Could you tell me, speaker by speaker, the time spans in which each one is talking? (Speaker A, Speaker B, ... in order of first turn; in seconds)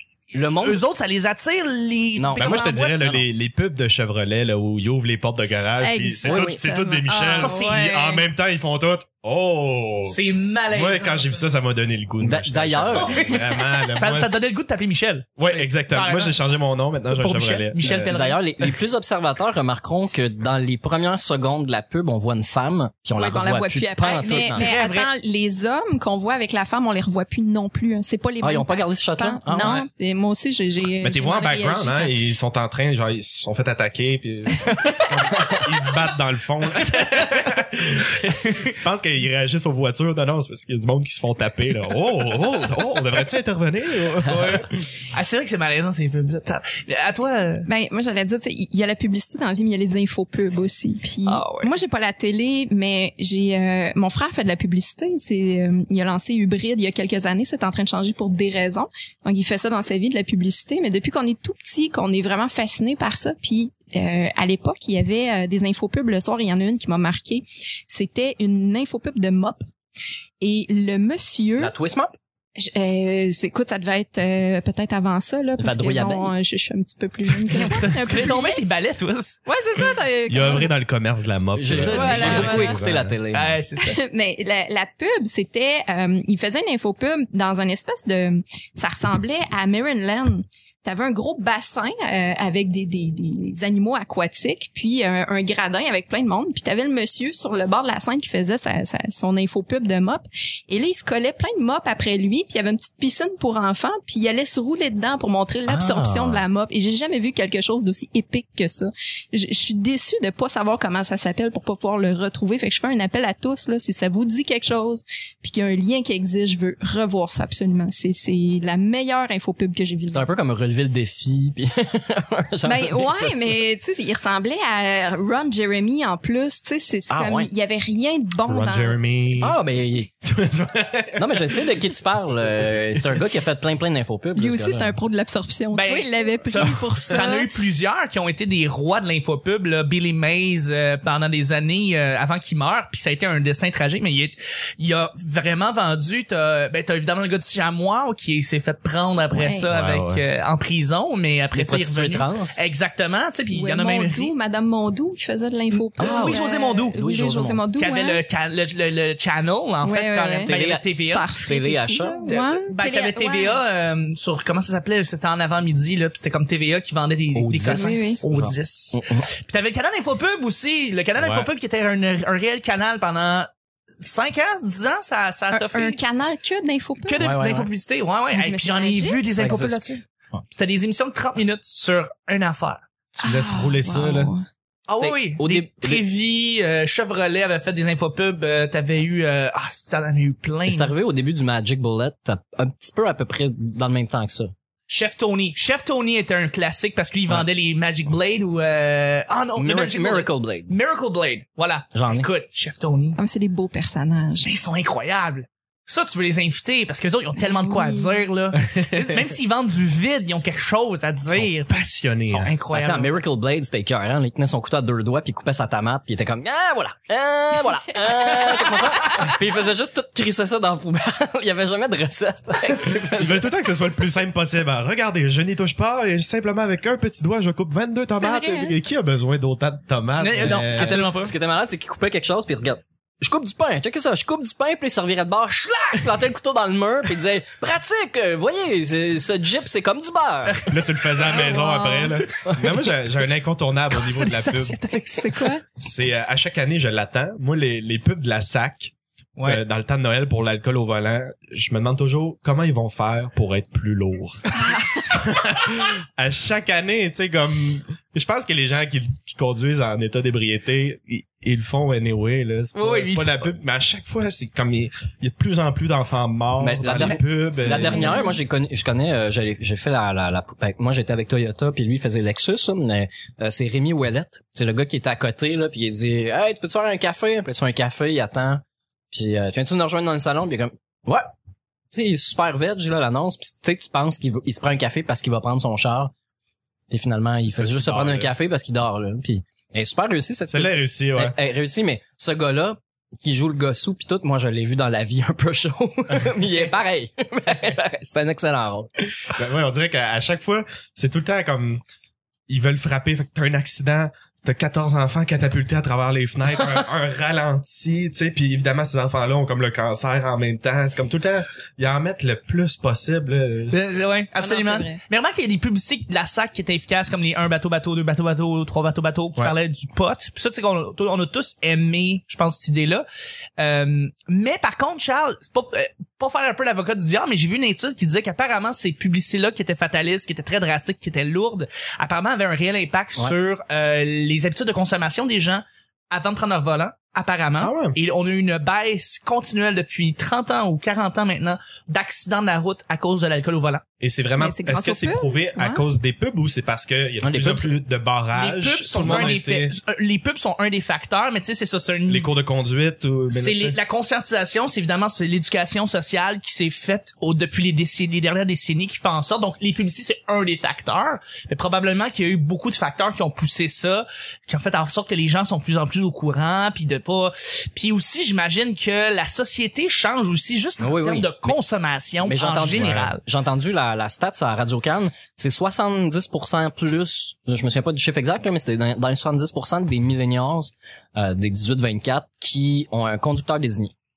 Speaker A: 0.3-0.8, 2.1-3.2, 6.2-6.6, 12.2-13.4, 17.8-24.7, 28.4-29.8, 71.6-72.1, 75.6-76.3, 81.5-83.6, 105.7-106.4, 120.1-123.6, 127.1-127.5, 129.4-130.1, 131.2-134.9, 149.7-150.1, 151.5-152.6, 156.0-157.6, 160.5-162.3, 167.3-169.2, 177.2-177.7, 179.3-180.4, 185.0-186.0, 190.7-194.5, 199.6-200.7, 201.9-202.3, 212.7-223.5, 230.4-240.7, 266.6-281.3, 281.9-286.1, 286.9-298.9, 347.2-347.7, 349.0-349.3, 370.8-371.6, 372.2-383.9
Speaker B: 0.6-3.1, 7.2-7.8, 10.0-11.4, 12.9-13.4, 13.9-16.4, 17.1-18.8, 24.2-25.1, 29.5-29.9, 36.8-37.6, 38.2-38.7, 44.3-47.7, 51.2-51.7, 77.5-79.4, 82.2-82.4, 83.3-84.0, 135.7-154.3, 156.0-156.9, 157.8-161.3, 162.2-176.0, 177.1-182.8, 184.9-190.9, 194.9-203.2, 204.4-213.2, 230.2-231.3, 240.5-241.6, 243.9-245.5, 249.4-249.6, 262.7-263.5, 313.7-323.0, 323.6-343.8, 348.3-352.3, 353.3-373.2
Speaker C: 2.4-10.2, 10.7-14.6, 15.4-18.1, 31.0-44.8, 80.3-83.2, 128.5-129.6, 130.2-131.7, 132.4-133.2, 149.7-150.2, 171.2-171.5, 183.1-184.3, 208.7-209.2, 211.3-212.5, 223.1-231.0, 240.7-244.8, 245.8-248.9, 249.4-268.2, 287.5-288.3, 290.5-291.4, 299.3-301.8, 302.5-313.8, 337.6-337.9, 344.0-349.8, 352.1-353.8, 372.6-373.1
Speaker D: 5.8-8.2, 23.1-32.2, 47.6-69.6, 70.4-71.7, 72.6-78.6, 79.5-80.7, 81.7-82.8, 83.8-120.3, 122.6-129.0, 134.3-137.5, 149.3-149.7, 153.5-158.2, 159.8-160.5, 161.1-163.6, 167.7-168.2, 175.5-177.2, 178.3-179.4, 183.2-184.4, 203.2-204.5, 207.4-208.2, 228.2-228.7, 241.3-242.2, 245.1-245.6, 267.6-268.4, 314.4-315.0, 344.4-345.8